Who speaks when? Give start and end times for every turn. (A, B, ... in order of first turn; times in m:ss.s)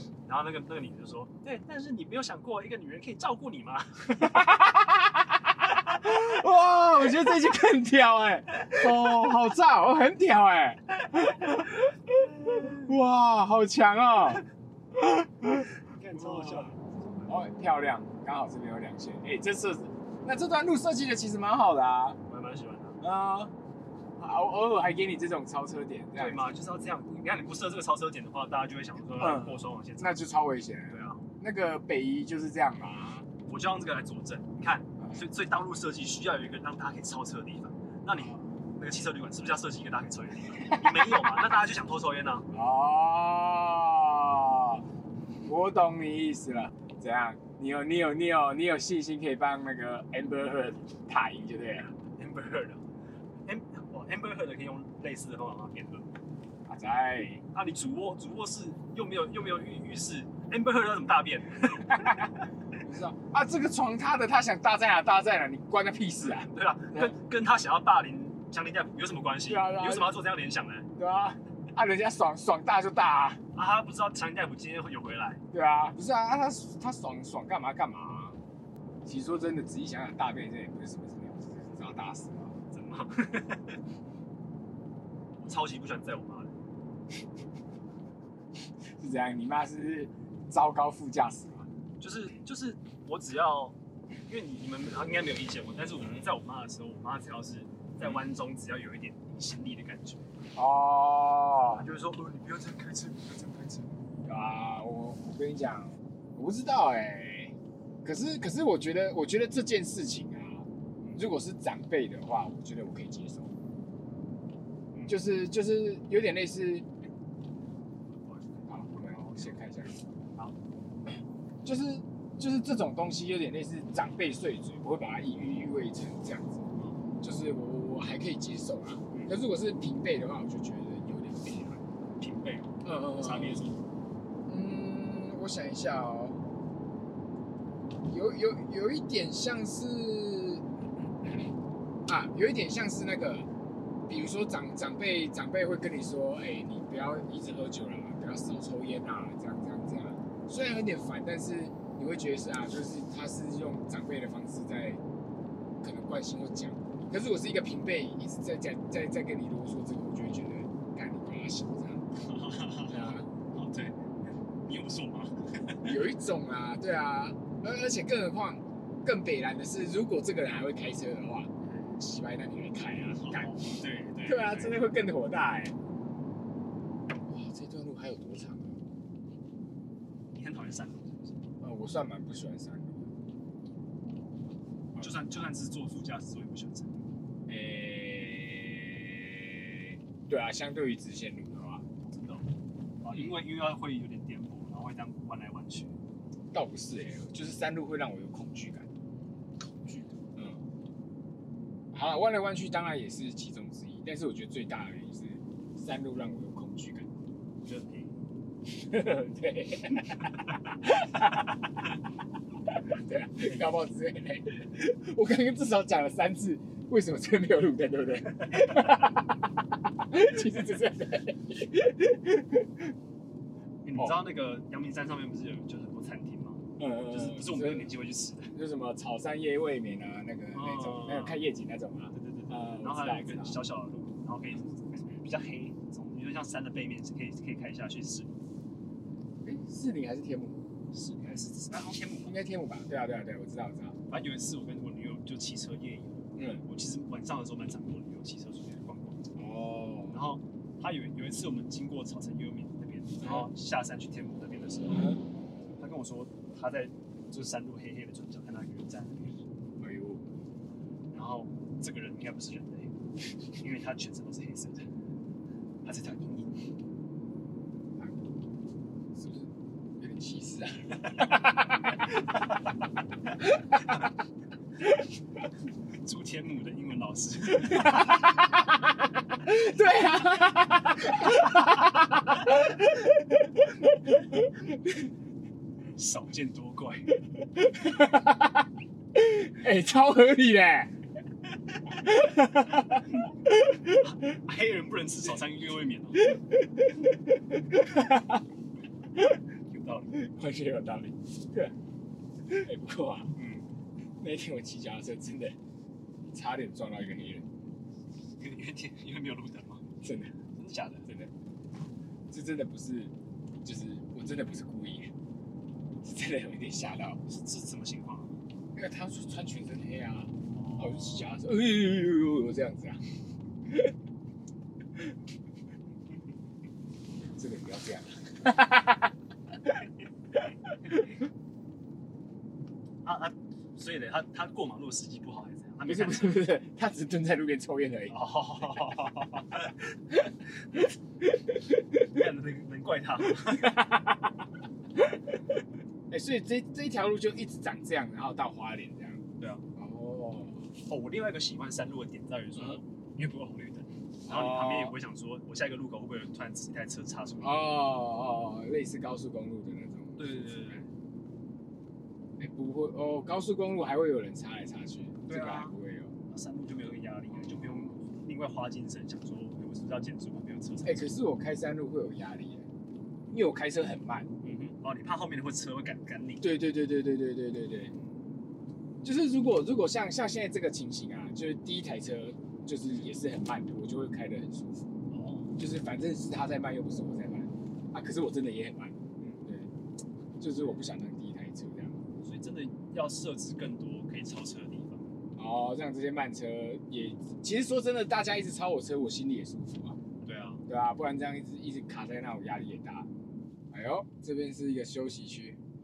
0:00.3-0:04.4 A
0:04.2-0:16.7 B
0:12.4-0:12.8 A
0:15.8-0:17.4 A
0:17.3-0:22.2 B
0:22.3-0:23.0 A
0:23.0-0:23.5 B
0:24.2-0:26.6 B
0:26.2-0:30.3 A
0:29.2-0:33.3 B
0:30.9-0:31.3 A
0:33.5-0:42.5 A
0:40.5-0:41.4 B
0:42.5-0:44.8 B
0:45.5-0:51.9 B
0:52.0-0:52.8 A
0:53.5-0:56.1 A
0:56.7-0:57.4 B
0:57.5-1:02.3 A
1:01.9-1:02.3 B
1:02.8-1:07.2 B
1:06.3-1:10.9 A
1:09.5-1:10.1 B
1:11.0-1:13.4 B
1:13.5-1:15.4 A
1:15.5-1:18.4 B
1:19.0-1:22.6 B
1:22.7-1:23.8 A
1:25.4-1:26.6 A
1:29.0-1:31.7 B
1:32.0-1:33.8 A
1:34.3-1:40.2 A
1:40.6-1:41.8 B
1:41.8-1:43.9 A
1:44.2-1:53.5 B
1:54.9-1:55.2 A
1:55.1-1:56.9 B
1:58.3-1:59.5 A
1:58.7-2:00.0 B
2:01.6-2:06.7 B
2:06.8-2:07.0 A
2:07.2-2:11.8 B
2:09.1-2:09.4 A
2:12.2-2:13.8 A
2:12.8-2:13.6 B
2:14.5-2:16.4 B
2:18.0-2:20.6 B
2:22.1-2:23.5 B
2:24.1-2:35.0 B
2:35.8-2:42.0 B
2:42.2-2:44.0 A
2:42.9-2:43.3 B
2:44.6-2:46.0 A
2:45.8-2:53.7 B
2:51.6-2:52.0 A
2:53.2-2:54.8 A
2:54.2-2:55.8 B
2:57.2-2:58.8 B
3:00.3-3:01.5 A
3:01.6-3:03.1 B
3:05.0-3:07.0 A
3:07.5-3:11.8 B
3:12.0-3:12.5 A
3:13.0-3:16.0 A
3:16.5-3:18.9 B
3:19.8-3:20.2 A
3:20.4-3:20.6 B
3:21.9-3:27.1 B
3:27.6-3:28.2 A
3:28.7-3:31.5 B
3:32.7-3:39.2 B
3:40.0-3:42.9 B
3:43.8-3:48.5 A
3:44.0-3:44.3 B
3:46.8-3:47.9 B
3:48.5-3:53.6 B
3:50.5-3:51.4 A
3:52.1-3:58.3 A
3:59.4-4:00.6 B
4:00.9-4:02.4 A
4:02.2-4:04.0 B
4:04.1-4:09.2 A
4:06.4-4:06.6 B
4:09.4-4:10.2 B
4:10.1-4:15.2 A
4:13.2-4:13.5 B
4:14.9-4:15.2 B
4:15.8-4:19.4 A
4:19.8-4:20.2 B
4:21.1-4:23.0 A
4:23.6-4:24.8 A
4:25.8-4:26.6 A
4:28.0-4:28.3 B
4:29.1-4:31.7 B
4:36.0-4:38.3 A
4:37.6-4:38.9 B
4:39.4-4:45.1 B
4:46.0-4:47.1 A
4:47.5-4:50.9 B
4:51.9-4:54.4 B
4:54.0-4:56.4 A
4:56.2-4:58.4 B
4:59.7-5:00.2 A
5:00.2-5:01.7 B
5:02.5-5:03.3 B
5:03.4-5:03.7 A
5:04.2-5:05.6 B
5:06.3-5:07.5 B
5:08.4-5:09.9 A
5:10.0-5:10.3 B
5:10.6-5:11.1 A
5:12.3-5:13.1 B
5:13.6-5:15.1 B
5:16.0-5:17.2 B
5:17.3-5:18.4 A
5:18.8-5:23.0 B
5:20.5-5:21.3 A
5:27.2-5:31.2 B
5:33.0-5:36.4 A
5:35.8-5:38.2 B
5:38.1-5:39.8 A
5:41.2-5:42.2 B
5:42.1-5:43.8 A
5:43.3-5:44.3 B
5:45.0-5:45.4 B
5:46.1-5:49.2 B
5:49.4-5:49.6 A
5:49.8-5:50.6 B
5:50.8-5:57.7 A
5:54.3-5:55.0 B
5:57.4-6:00.8 B
6:00.2-6:00.9 A
6:02.4-6:06.1 B
6:05.3-6:05.8 A
6:06.3-6:11.1 A
6:07.5-6:07.9 B
6:10.8-6:12.7 B
6:13.3-6:14.3 B
6:14.4-6:16.6 A
6:16.4-6:17.9 B
6:19.0-6:24.9 B
6:25.1-6:25.5 A
6:25.6-6:29.7 B
6:30.4-6:32.0 B
6:32.2-6:35.1 A
6:35.4-6:40.0 B
6:40.2-6:40.6 A
6:40.7-6:43.1 B
6:43.7-6:45.6 B